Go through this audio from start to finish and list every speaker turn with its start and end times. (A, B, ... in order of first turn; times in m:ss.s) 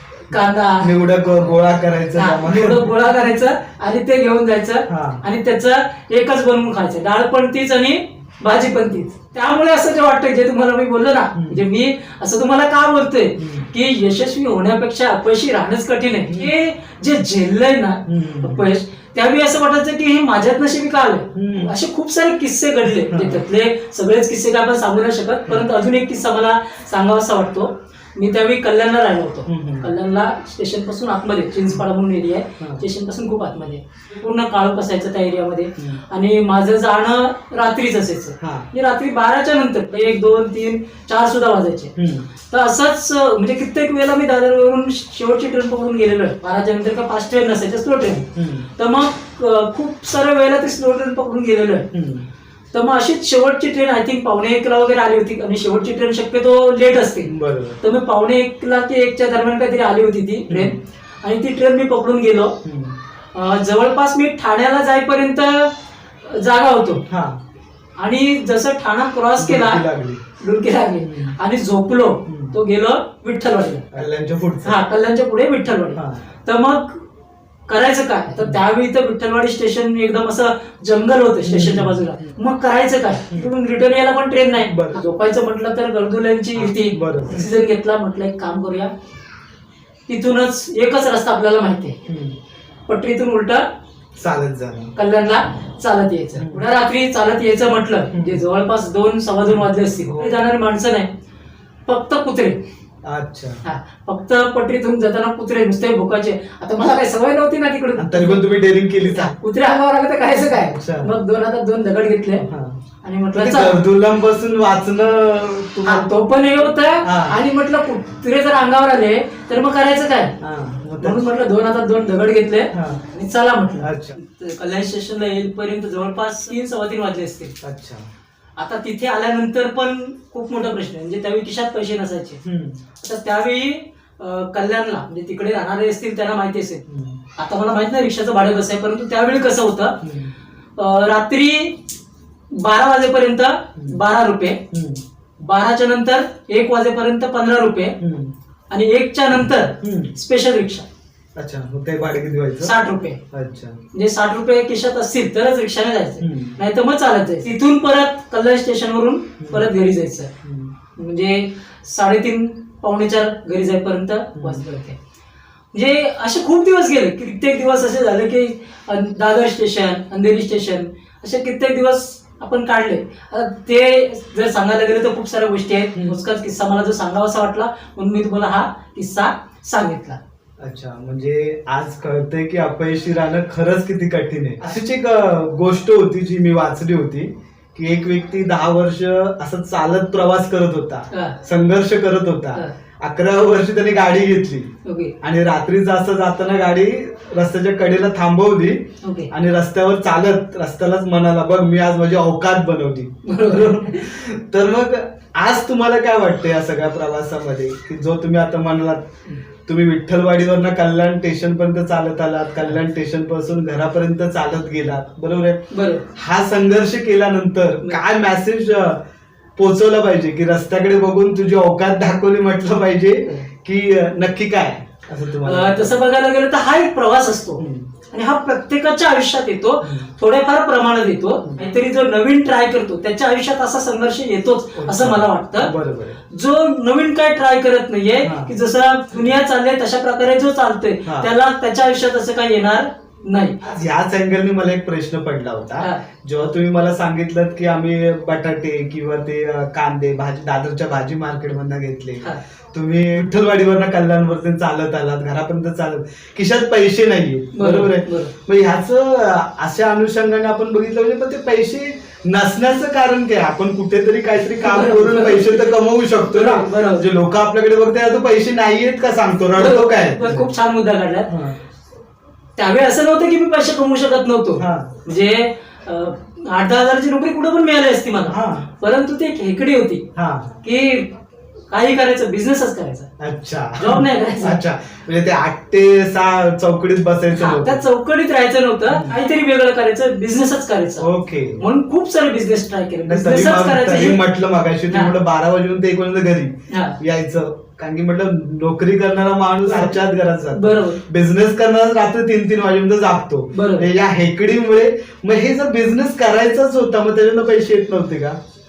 0:00.3-0:00.9 A
0:00.8-0:02.9 B
0:02.2-0:41.9 A
0:04.9-0:05.2 B
0:11.3-0:11.6 B
0:13.4-0:13.7 B
0:18.0-0:18.7 B
0:21.3-0:21.7 B
0:23.1-0:23.4 B
0:29.4-0:29.9 B
0:38.4-0:38.7 B
0:42.0-0:42.3 B
0:42.5-0:51.9 A
0:48.2-0:48.7 B
0:51.9-0:52.3 B
0:52.7-1:02.6 A
0:57.2-0:57.8 B
1:00.5-1:00.8 B
1:02.6-1:03.0 B
1:03.3-1:05.7 A
1:06.2-1:07.0 A
1:07.0-1:07.4 B
1:08.0-1:09.8 A
1:09.4-1:10.2 B
1:10.4-1:13.9 A
1:11.0-1:11.4 B
1:12.3-1:12.6 B
1:13.9-1:14.8 B
1:14.6-1:17.0 A
1:15.9-1:16.2 B
1:17.7-1:28.9 A
1:18.3-1:18.6 B
1:21.4-1:22.3 B
1:24.6-1:25.0 B
1:26.5-1:27.5 B
1:30.1-1:32.0 A
1:32.1-1:32.4 B
1:32.9-1:33.6 A
1:34.2-1:34.9 B
1:35.0-1:41.1 A
1:36.4-1:36.6 B
1:38.1-1:38.4 B
1:40.0-1:40.4 B
1:41.9-1:42.6 A
1:43.0-1:43.6 B
1:43.6-1:48.4 A
1:48.0-1:49.3 B
1:49.0-1:52.5 A
1:50.6-1:51.1 B
1:52.4-1:52.8 B
1:53.0-1:53.8 A
1:53.3-1:56.2 B
1:55.8-2:00.4 A
1:57.0-1:57.4 B
2:00.4-2:01.3 B
2:01.0-2:07.6 A
2:02.7-2:03.0 B
2:03.8-2:04.2 B
2:07.6-2:08.1 B
2:08.6-2:12.4 A
2:12.4-2:12.8 B
2:13.0-2:16.8 A
2:16.9-2:17.2 B
2:17.4-2:20.0 A
2:20.0-2:20.3 B
2:20.8-2:21.8 A
2:22.5-2:24.6 A
2:24.7-2:25.0 B
2:25.4-2:28.0 A
2:28.0-2:28.3 B
2:28.7-2:30.8 A
2:29.8-2:30.1 B
2:31.4-2:32.7 B
2:32.6-2:33.2 A
2:33.3-2:33.8 B
2:33.9-2:40.3 A
2:36.2-2:36.6 B
2:39.4-2:39.7 B
2:40.4-2:40.7 B
2:40.9-2:45.0 A
2:44.4-2:44.7 B
2:45.7-3:00.2 A
2:55.9-2:56.2 B
3:00.6-3:29.1 B
3:11.1-3:11.4 A
3:14.8-3:15.1 A
3:19.0-3:19.3 A
3:23.2-3:24.0 A
3:29.6-3:39.0 B
3:35.7-3:36.1 A
3:39.6-3:45.9 B
3:45.4-3:55.7 A
3:47.6-3:47.9 B
3:49.8-3:50.1 B
3:54.8-3:56.2 B
3:56.3-4:03.7 A
3:58.2-3:58.6 B
4:01.0-4:01.3 B
4:03.6-4:30.5 B
4:17.5-4:18.3 A
4:24.6-4:25.7 A
4:26.2-4:27.0 A
4:29.5-4:31.4 A
4:31.3-4:31.6 B
4:32.6-4:40.0 A
4:34.6-4:35.0 B
4:38.2-4:38.7 B
4:40.1-4:40.6 B
4:40.6-4:41.1 A
4:41.7-4:43.1 A
4:43.2-4:47.8 B
4:43.8-4:44.6 A
4:47.3-4:54.2 A
4:48.9-4:49.2 B
4:51.0-4:51.6 B
4:53.0-5:08.4 B
4:56.7-4:57.0 A
4:59.6-5:00.0 A
5:00.5-5:01.0 A
5:03.5-5:03.9 A